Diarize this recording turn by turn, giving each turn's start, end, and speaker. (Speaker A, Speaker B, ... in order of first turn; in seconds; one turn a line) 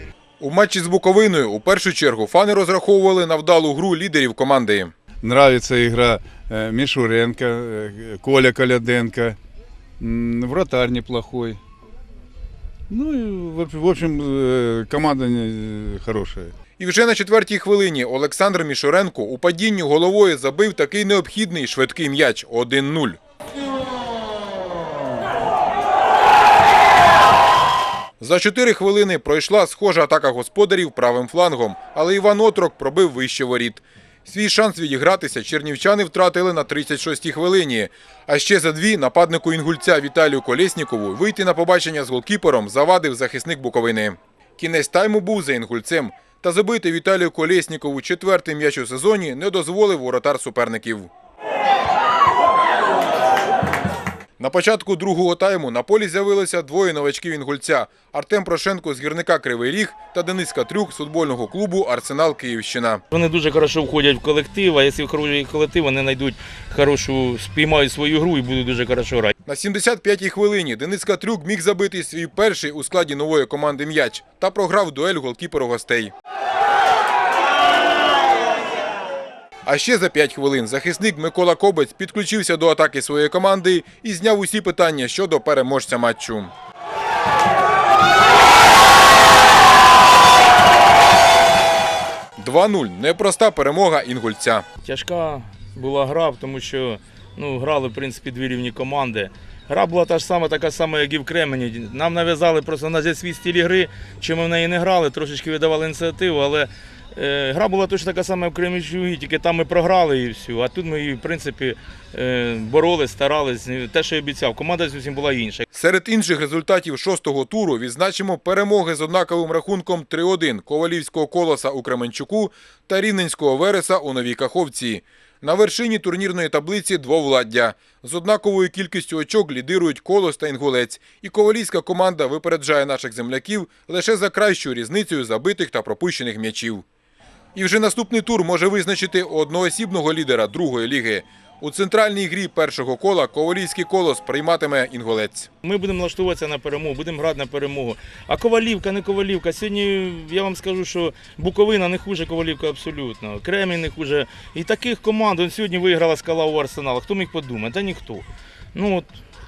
Speaker A: 0.4-4.9
Speaker B: 5.3-9.4
Speaker B: 10.0-11.6
Speaker B: 12.9-16.5
Speaker A: 16.8-23.2
Speaker A: 28.2-51.1
Speaker A: 54.4-63.0
Speaker C: 63.1-69.3
Speaker A: 69.5-76.1
Speaker A: 79.7-86.5
Speaker A: 92.4-94.7
Speaker C: 94.8-115.7
Speaker A: 115.7-136.8
Speaker A: 137.6-145.5
Speaker C: 145.6-159.2